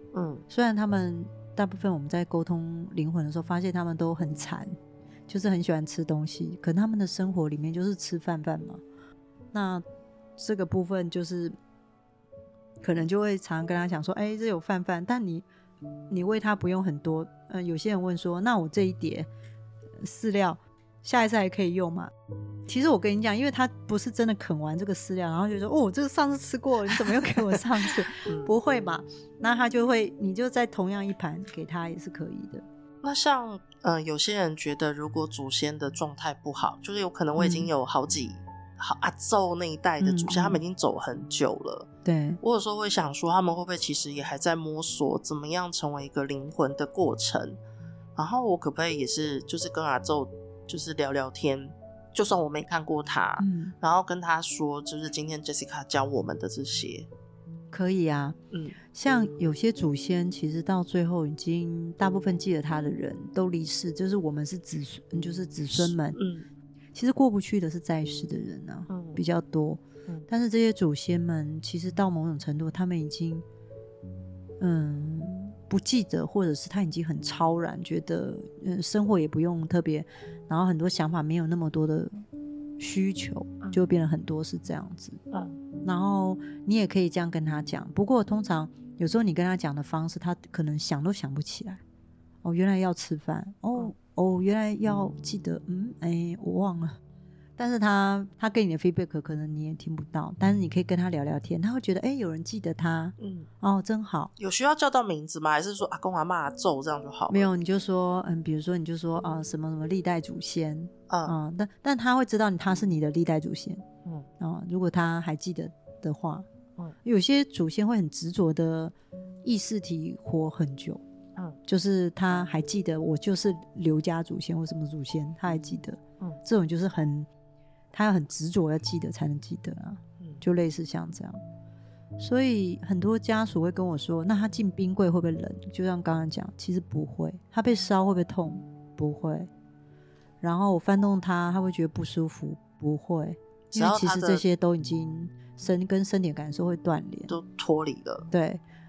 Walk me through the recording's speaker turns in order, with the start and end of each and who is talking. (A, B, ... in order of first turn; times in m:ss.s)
0:00.1-0:00.4 A
0:00.5-0:04.7 B
0:05.3-0:08.8 B
0:09.5-0:09.8 B
0:10.4-0:11.6 B
0:12.8-0:15.4 B
0:16.1-0:19.3 B
0:20.0-0:22.1 B
0:22.7-0:32.6 B
0:26.9-0:27.3 A
0:28.2-0:28.5 A
0:33.0-0:41.9 A
0:37.4-0:37.7 B
0:40.0-0:40.6 B
0:42.0-0:42.4 B
0:42.4-0:47.6 A
0:48.2-0:57.1 A
0:53.4-0:53.7 B
0:57.7-0:58.4 B
0:58.5-0:58.8 A
0:58.9-1:06.2 B
1:05.7-1:06.5 A
1:06.9-1:13.4 B
1:08.9-1:09.2 A
1:14.6-1:22.2 B
1:22.8-1:25.2 B
1:25.3-1:25.6 A
1:25.8-1:31.8 B
1:32.4-1:37.0 B
1:37.6-1:44.3 B
1:43.2-1:43.5 A
1:44.4-1:47.5 A
1:47.3-1:53.8 B
1:51.1-1:51.3 A
1:54.4-1:56.5 B
1:57.0-2:01.0 B
2:01.6-2:07.3 B
2:07.9-2:11.4 B
2:12.2-2:19.5 B
2:20.4-2:27.3 B
2:23.7-2:24.4 A
2:27.3-2:28.3 A
2:28.3-2:28.6 B